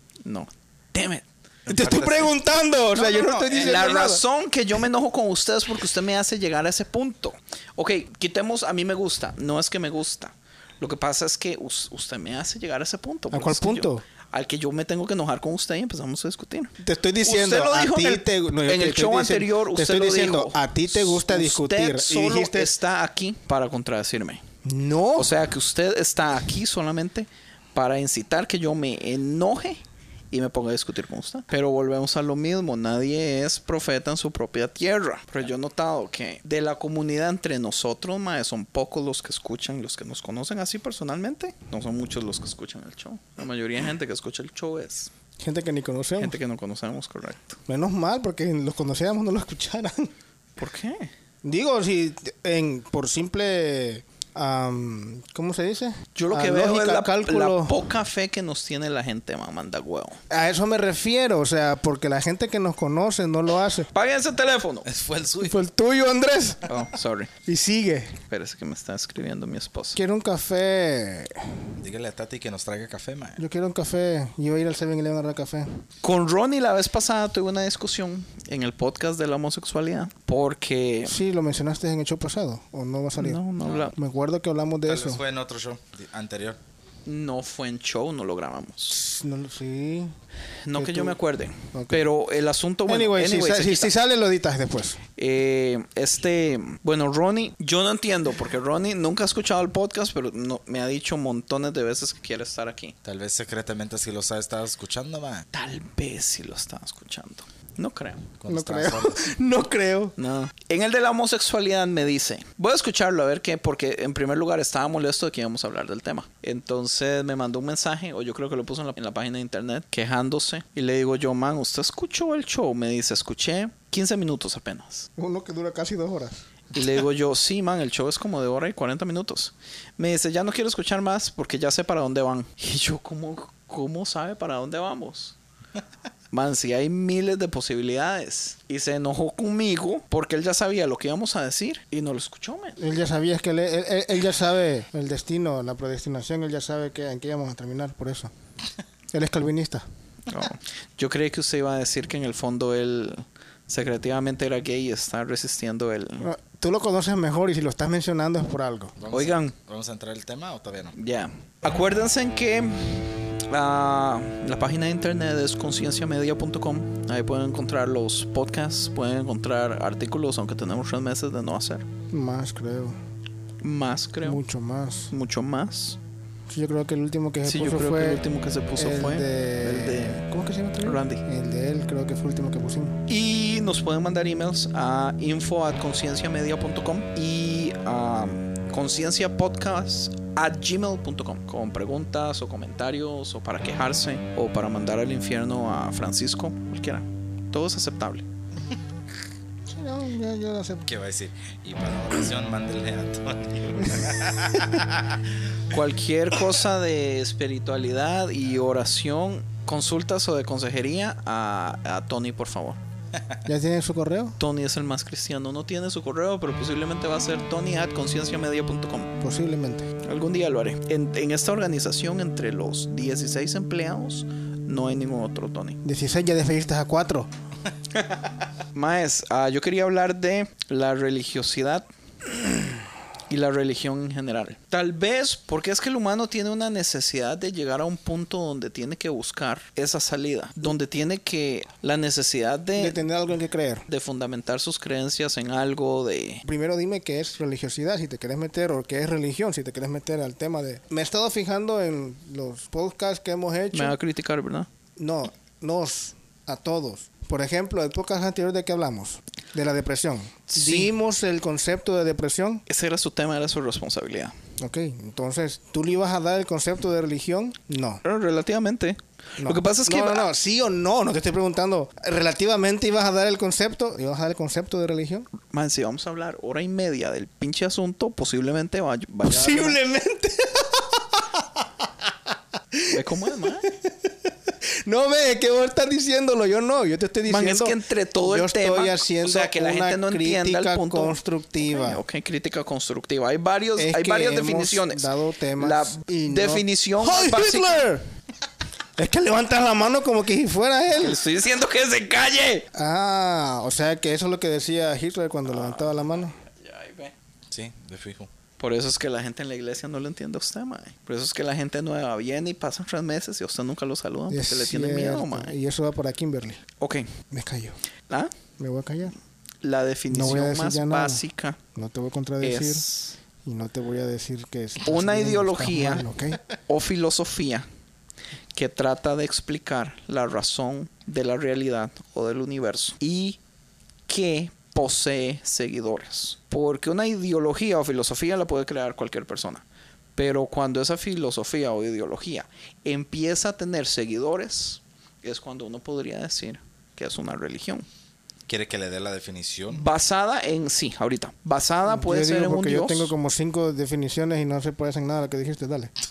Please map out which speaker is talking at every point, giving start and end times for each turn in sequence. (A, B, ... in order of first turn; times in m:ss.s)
0:00.2-0:02.1 A
0:01.7-0:04.2 B
0:01.7-0:02.3 C
0:03.0-0:04.0 C
0:03.5-0:24.4 A
0:13.3-0:14.0 B
0:16.8-0:22.7 B
0:24.6-0:25.3 B
0:25.2-0:45.1 A
0:45.4-0:46.4 B
0:46.2-0:47.6 A
0:47.7-0:50.1 B
0:50.6-0:51.1 A
0:51.4-0:57.8 B
0:56.2-1:00.2 A
1:00.3-1:03.9 B
1:03.9-1:04.9 A
1:04.9-1:05.6 C
1:05.4-1:06.7 B
1:06.7-1:07.3 A
1:07.4-1:08.2 B
1:08.3-1:10.0 A
1:10.0-1:11.5 B
1:11.8-1:13.4 C
1:13.4-1:15.8 B
1:16.0-1:21.2 A
1:21.1-1:25.2 B
1:23.2-1:23.9 A
1:24.9-1:26.6 C
1:27.1-1:29.0 A
1:28.9-1:30.1 B
1:30.6-1:34.0 A
1:30.8-1:31.2 B
1:31.7-1:32.0 B
1:32.9-1:35.0 B
1:35.2-1:42.9 A
1:43.0-1:45.5 C
1:45.5-1:48.3 A
1:48.4-1:49.3 C
1:48.5-1:50.2 B
1:50.2-2:05.1 A
2:05.2-2:06.4 B
2:06.7-2:15.4 A
2:16.3-2:22.8 A
2:22.8-2:28.3 B
2:29.1-2:29.9 B
2:30.3-2:36.3 A
2:36.2-2:38.9 B
2:39.0-2:40.9 C
2:39.1-2:39.6 A
2:41.0-2:51.9 A
2:52.1-2:53.0 B
2:53.6-2:54.4 A
2:54.2-2:55.1 B
2:55.1-2:56.0 A
2:56.5-2:58.2 B
2:57.4-3:00.2 A
2:58.8-3:03.0 B
3:00.8-3:01.2 A
3:03.1-3:18.2 A
3:19.7-3:20.9 B
3:20.9-3:25.3 C
3:25.7-3:32.8 A
3:33.4-3:34.4 B
3:34.4-3:39.1 A
3:39.2-3:39.9 B
3:40.0-3:45.8 A
3:45.8-3:47.3 B
3:48.0-3:48.2 A
3:48.7-3:52.5 A
3:53.3-4:03.0 A
4:02.8-4:03.9 B
4:03.9-4:06.4 A
4:06.4-4:14.0 B
4:13.7-4:14.7 A
4:15.0-4:22.6 B
4:20.5-4:20.9 A
4:22.7-4:24.4 A
4:24.6-4:28.0 B
4:28.0-4:30.3 A
4:29.4-4:35.3 B
4:35.4-4:39.8 A
4:39.2-4:42.1 B
4:42.7-4:43.0 B
4:42.9-4:43.7 A
4:43.7-4:52.0 B
4:47.3-4:57.9 A
4:53.8-4:58.0 B
4:59.0-5:01.2 B
5:01.0-5:02.7 A
5:02.7-5:06.4 B
5:05.5-5:07.1 A
5:07.5-5:08.3 C
5:08.6-5:15.6 A
5:14.3-5:16.6 B
5:16.8-5:17.1 A
5:17.3-5:17.8 B
5:18.6-5:19.2 B
5:19.6-5:21.6 A
5:20.1-5:22.9 B
5:22.4-5:23.2 A
5:23.4-5:26.4 B
5:24.8-5:26.1 A
5:26.7-5:27.7 A
5:28.6-5:33.4 A
5:34.1-5:39.6 A
5:40.2-5:47.9 A
5:48.5-5:49.8 C
5:49.7-5:53.1 A
5:51.9-5:55.9 B